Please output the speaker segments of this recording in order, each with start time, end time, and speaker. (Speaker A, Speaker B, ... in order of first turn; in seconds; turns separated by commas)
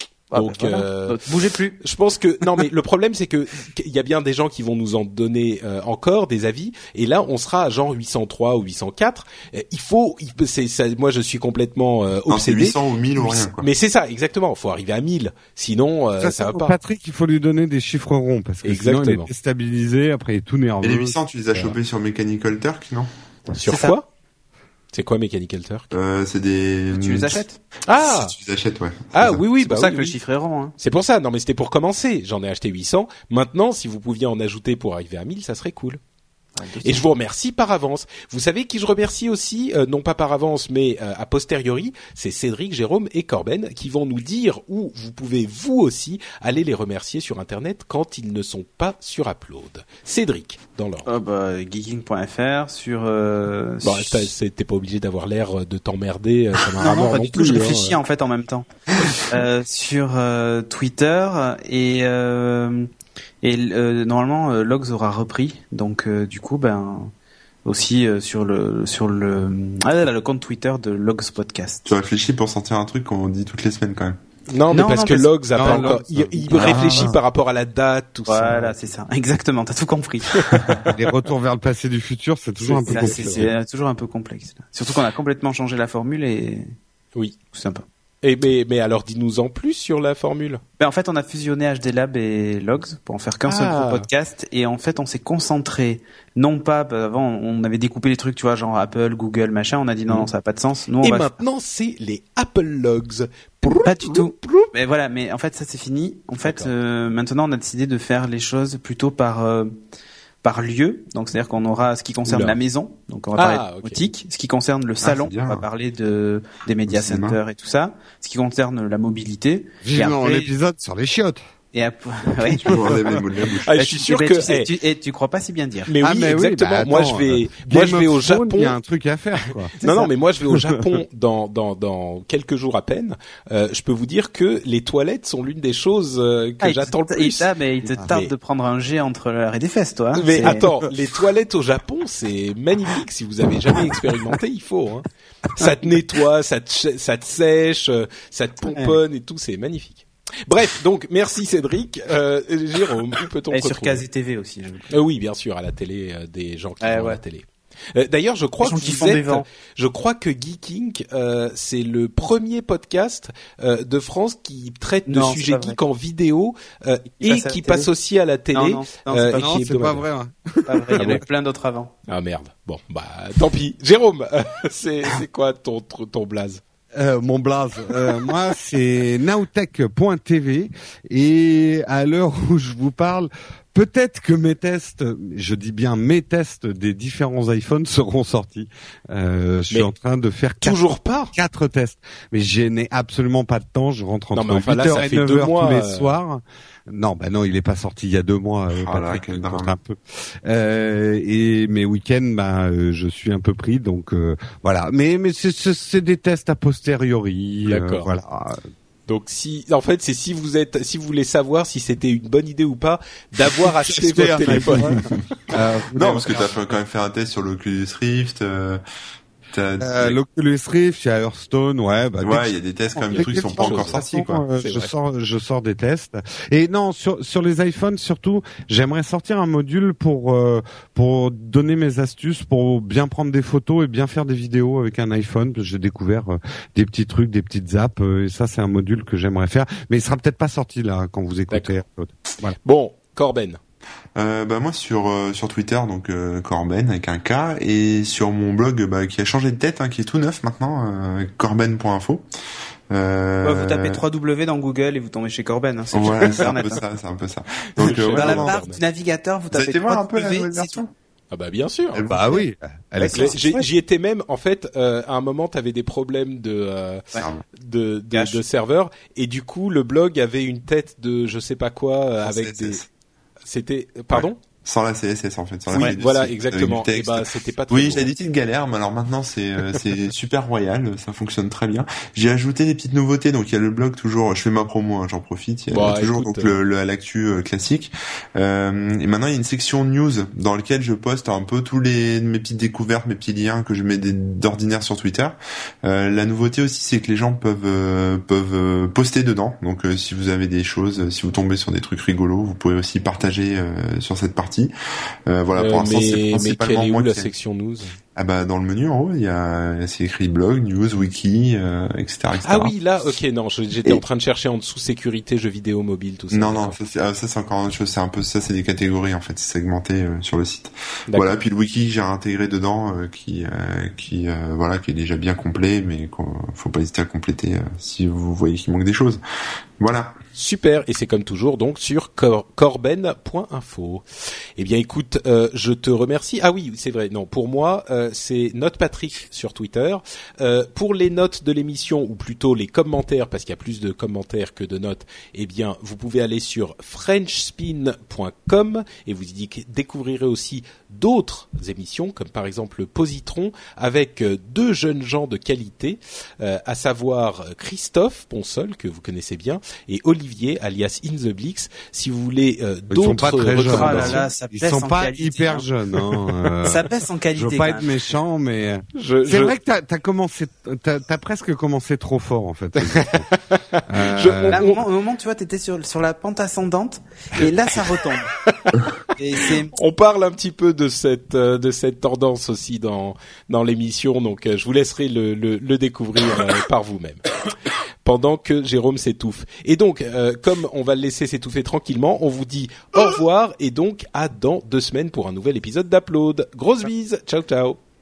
Speaker A: 0.3-1.8, Speaker B: 0.3-1.2, Speaker B: 1.8-16.8, Speaker C: 12.3-13.7, Speaker D: 16.2-21.1, Speaker B: 18.6-19.3, Speaker C: 20.8-23.1, Speaker B: 23.5-24.1, Speaker A: 23.7-23.9, Speaker B: 24.9-25.9, Speaker C: 25.9-29.4, Speaker A: 26.9-27.6, Speaker B: 27.9-28.3, Speaker B: 29.1-30.2, Speaker A: 29.6-30.8, Speaker B: 30.8-36.0, Speaker A: 36.5-37.1, Speaker B: 36.8-51.1, Speaker A: 51.0-54.3, Speaker B: 53.8-58.0, Speaker A: 56.8-62.9, Speaker A: 63.4-67.1, Speaker A: 67.7-71.9, Speaker C: 71.9-74.2, Speaker B: 74.5-78.9, Speaker A: 74.7-77.1, Speaker D: 75.5-77.2, Speaker C: 76.5-77.1, Speaker A: 78.3-80.5, Speaker B: 80.3-80.7, Speaker D: 80.9-83.5, Speaker B: 82.6-83.5, Speaker A: 82.9-86.7, Speaker A: 87.5-87.8, Speaker B: 88.2-90.6, Speaker A: 90.8-101.3, Speaker B: 93.5-94.1, Speaker B: 101.0-104.7, Speaker A: 103.7-109.7, Speaker B: 106.4-106.7, Speaker A: 110.4-120.5, Speaker B: 113.3-114.0, Speaker C: 115.0-115.7, Speaker C: 116.9-117.4, Speaker D: 119.8-121.4, Speaker A: 121.7-125.9, Speaker C: 122.5-123.7, Speaker D: 122.7-123.2, Speaker B: 123.6-124.7, Speaker B: 125.9-128.8, Speaker D: 126.0-129.8, Speaker B: 129.8-138.3, Speaker A: 129.8-130.1, Speaker D: 130.5-130.8, Speaker A: 136.6-140.7, Speaker B: 140.1-154.0, Speaker A: 148.7-149.0, Speaker A: 153.5-154.9, Speaker B: 154.9-170.1, Speaker A: 156.8-157.2, Speaker A: 158.6-159.5, Speaker A: 165.1-165.8, Speaker A: 167.2-167.9, Speaker A: 168.5-169.7, Speaker D: 169.4-171.1, Speaker A: 170.7-171.9, Speaker B: 170.9-171.2, Speaker B: 172.1-176.6, Speaker D: 176.9-208.6, Speaker B: 190.6-191.3, Speaker B: 194.3-196.2, Speaker C: 198.7-199.7, Speaker B: 207.7-208.1, Speaker B: 209.1-215.1, Speaker D: 213.4-216.5, Speaker C: 214.6-214.8, Speaker C: 215.9-218.8, Speaker C: 219.5-220.2, Speaker D: 219.8-242.6, Speaker C: 222.2-224.4, Speaker B: 223.1-224.0, Speaker B: 224.6-224.9, Speaker B: 242.6-243.6, Speaker C: 244.2-252.2, Speaker C: 252.9-254.0, Speaker A: 253.4-256.8, Speaker C: 255.9-258.5, Speaker B: 257.8-258.8, Speaker A: 257.8-260.8, Speaker C: 259.5-260.9, Speaker B: 261.3-262.0, Speaker D: 262.1-263.4, Speaker A: 263.0-263.7, Speaker B: 263.1-272.9, Speaker C: 267.2-267.4, Speaker A: 268.1-268.4, Speaker C: 272.2-272.9, Speaker B: 273.5-274.4, Speaker C: 274.1-304.7, Speaker B: 275.7-278.1, Speaker B: 285.7-286.6, Speaker C: 305.3-307.3, Speaker B: 305.6-308.0, Speaker C: 308.2-312.7, Speaker B: 312.4-316.8, Speaker C: 316.3-329.2, Speaker B: 321.1-321.4, Speaker C: 329.8-330.1, Speaker B: 330.4-334.0, Speaker B: 334.6-364.2, Speaker D: 362.9-373.3, Speaker A: 363.7-365.7, Speaker A: 366.6-368.1, Speaker B: 368.9-369.5, Speaker B: 372.8-374.8, Speaker D: 373.9-374.7, Speaker A: 374.5-378.4, Speaker B: 378.4-378.9, Speaker A: 379.1-379.8, Speaker B: 379.4-387.3, Speaker B: 388.0-397.8